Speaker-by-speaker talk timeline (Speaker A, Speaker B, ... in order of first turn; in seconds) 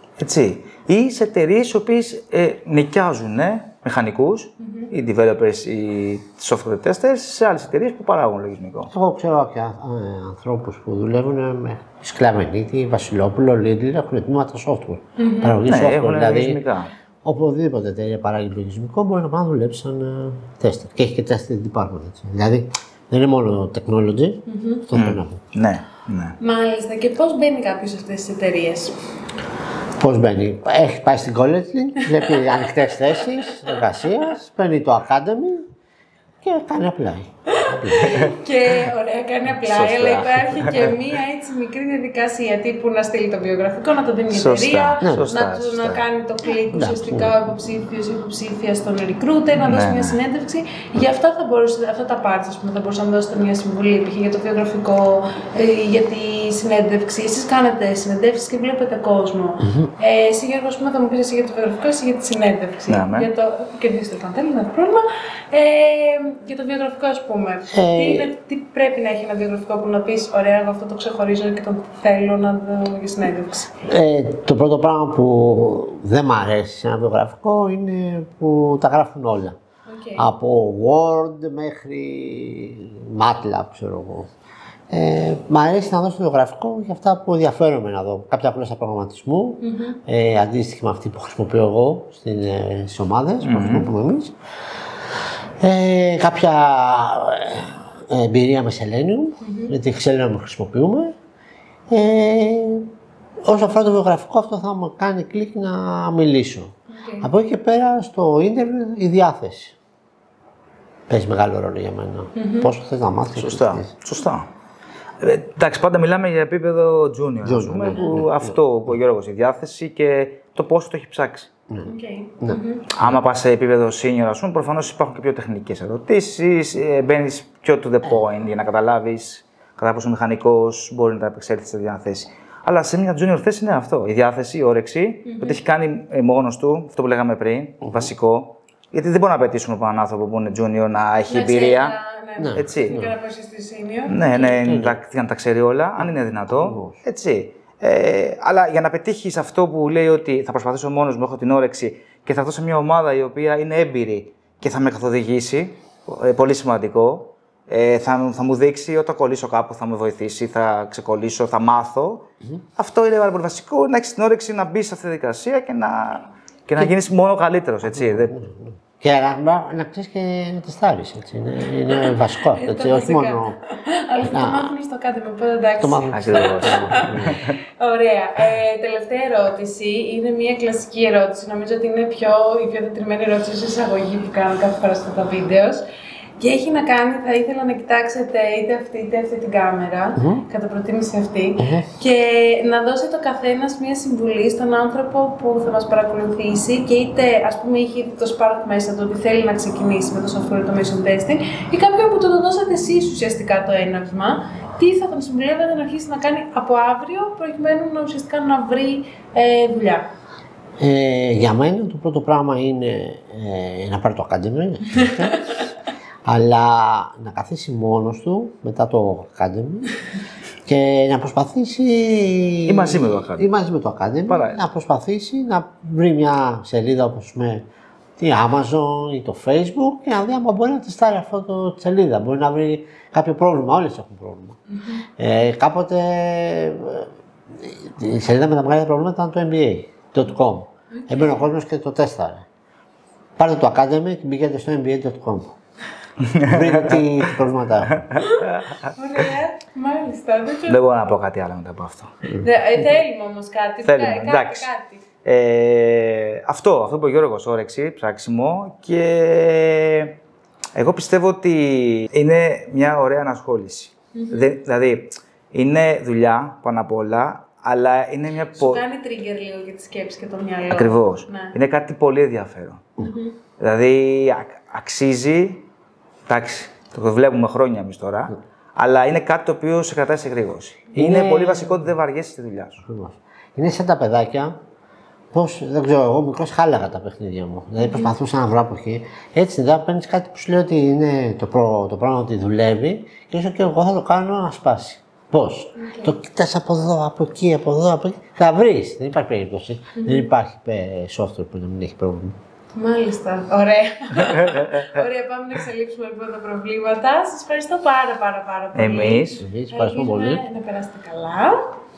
Speaker A: 0.2-8.9, 15.6-16.9, 24.9-26.4, 38.0-38.4, 39.6-41.0, 44.3-46.0, 49.6-50.2, 62.9-63.3, 93.4-93.9, 113.3-114.5, 115.2-121.5, 122.9-141.9, 142.5-143.0, 144.1-168.4, 176.1-177.6, 222.7-223.5, 224.3-224.6, 246.2-248.9, 250.7-252.4, 253.8-254.7, 255.2-260.2, 260.8-268.8, 270.7-272.9, 273.6-275.7, 276.3-282.8, 308.7-309.4
Speaker B: 4.6-4.9, 15.2-15.7, 24.5-24.9, 26.4-29.0, 32.0-32.5, 37.5-73.8, 79.9-80.2, 89.6-90.0, 99.4-99.7, 106.9-107.3, 112.3-112.7, 121.8-122.8, 135.2-135.6, 141.3-144.6, 172.0-185.8, 186.4-210.1, 240.9-241.5, 248.2-250.9, 252.4-255.0, 264.1-264.5, 268.6-271.5, 273.0-273.3, 287.8-288.1, 295.8-296.1, 299.9-300.3, 302.8-311.7
Speaker C: 8.9-16.6, 17.2-25.4, 30.0-35.7, 36.4-38.2, 46.7-47.3, 59.6-59.9, 67.7-68.3, 73.8-79.5, 80.2-84.3, 84.9-94.3, 95.6-101.1, 101.9-102.9, 103.4-109.8, 111.1-113.9, 117.4-118.5, 121.7-122.6, 142.4-143.1, 144.6-144.9, 146.5-147.0, 167.9-173.6, 174.2-174.7, 175.8-177.4, 190.2-190.4, 191.6-191.9, 210.8-215.7, 216.2-219.9, 220.6-227.6, 228.2-234.6, 235.2-242.4, 243.4-245.6, 246.5-248.1, 280.9-281.9, 282.8-284.6, 285.3-302.4, 309.4-310.4